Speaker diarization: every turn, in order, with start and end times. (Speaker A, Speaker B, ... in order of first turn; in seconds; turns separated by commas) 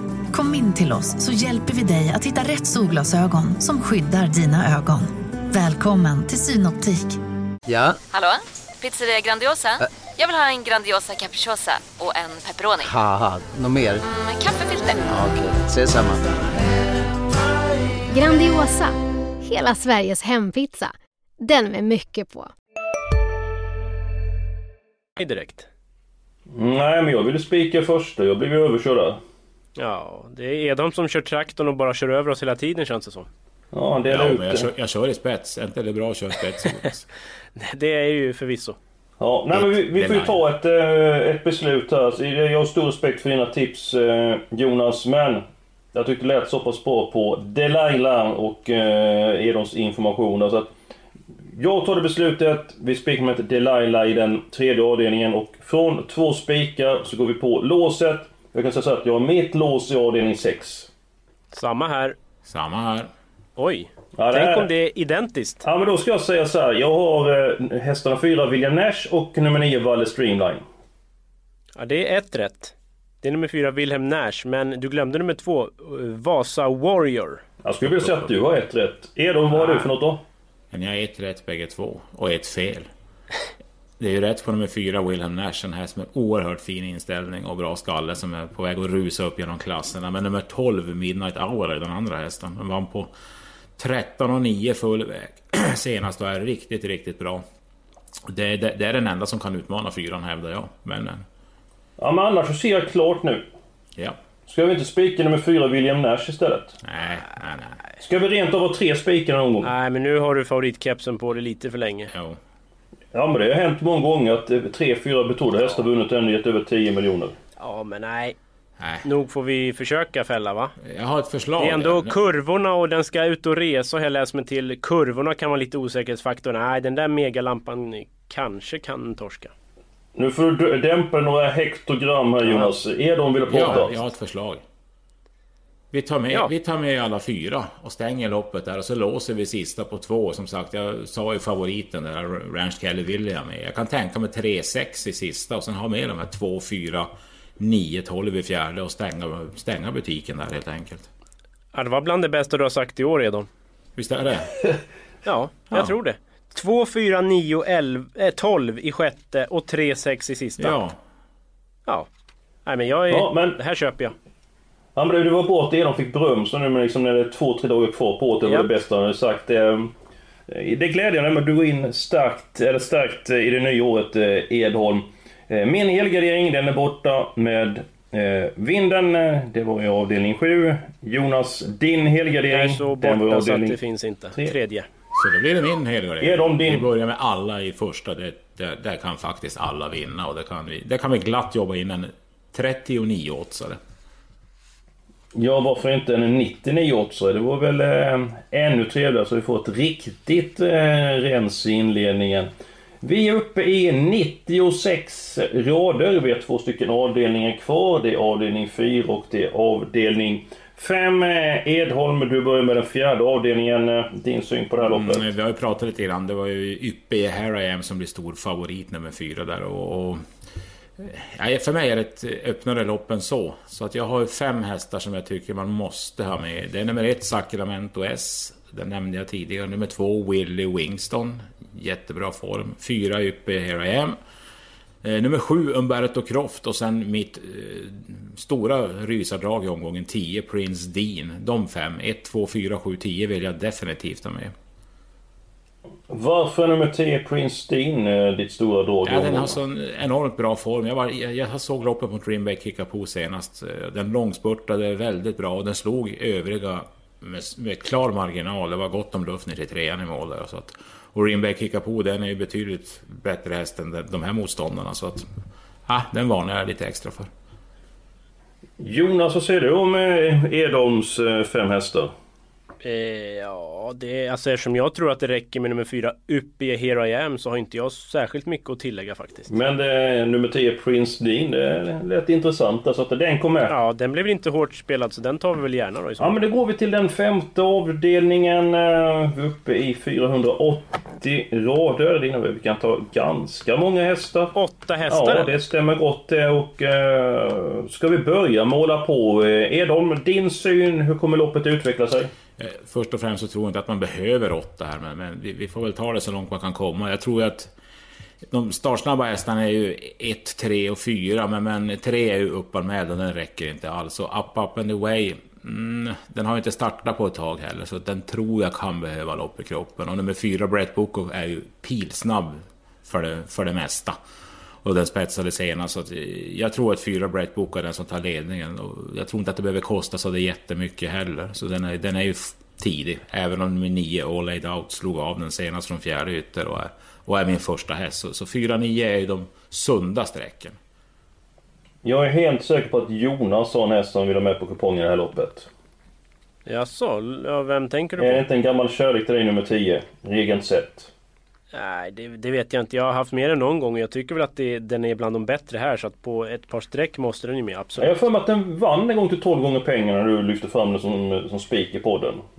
Speaker A: 0.3-7.2, Speaker B: 7.7-8.0, Speaker C: 8.1-12.9, Speaker B: 12.8-14.0, Speaker C: 14.1-14.9, Speaker B: 15.1-16.2, Speaker D: 18.1-22.5, Speaker E: 25.2-25.7, Speaker F: 26.5-29.2, Speaker E: 29.8-33.3, Speaker F: 33.7-34.7, Speaker G: 34.0-37.0, Speaker E: 37.5-38.8, Speaker F: 39.2-50.7, Speaker G: 39.5-40.4, Speaker F: 51.5-60.9, Speaker E: 61.5-62.1, Speaker G: 62.4-63.1, Speaker E: 63.6-65.6, Speaker F: 64.2-64.7, Speaker F: 65.6-70.6, Speaker E: 71.8-77.4, Speaker F: 77.6-80.2, Speaker E: 79.5-79.9, Speaker G: 80.7-82.9, Speaker G: 84.0-93.1, Speaker G: 93.8-97.4, Speaker G: 98.3-101.2, Speaker F: 102.0-103.4, Speaker F: 104.5-106.8, Speaker G: 106.8-107.8, Speaker F: 108.0-109.7, Speaker E: 109.6-112.1, Speaker G: 112.1-112.4, Speaker F: 113.1-117.3, Speaker E: 117.6-118.3, Speaker G: 118.8-119.1, Speaker E: 119.0-120.7, Speaker G: 120.8-122.2, Speaker E: 121.6-129.5, Speaker F: 130.1-134.1, Speaker E: 132.4-132.7, Speaker G: 133.4-134.6, Speaker G: 135.9-151.1, Speaker E: 151.7-153.5, Speaker G: 153.9-154.5, Speaker E: 155.2-160.8, Speaker G: 160.6-161.0, Speaker E: 162.7-164.1, Speaker F: 163.1-163.6, Speaker F: 164.9-169.9, Speaker E: 168.4-168.8, Speaker F: 170.5-183.8, Speaker E: 182.5-184.9, Speaker G: 185.1-193.8, Speaker F: 186.2-186.9, Speaker F: 195.3-202.5, Speaker F: 203.0-215.3, Speaker G: 214.8-220.2, Speaker G: 221.0-234.2, Speaker G: 235.0-244.5, Speaker F: 246.1-249.6, Speaker G: 249.0-265.2, Speaker G: 265.9-267.3, Speaker F: 268.8-272.1, Speaker E: 272.8-279.5, Speaker F: 279.5-283.7, Speaker E: 283.6-286.4, Speaker F: 286.2-294.5, Speaker E: 294.5-295.5, Speaker F: 295.1-302.3, Speaker G: 302.6-307.7, Speaker G: 308.5-324.1, Speaker G: 324.8-340.8, Speaker F: 342.0-345.7, Speaker E: 346.6-348.4, Speaker F: 348.2-351.1, Speaker E: 351.7-358.2, Speaker F: 358.0-362.4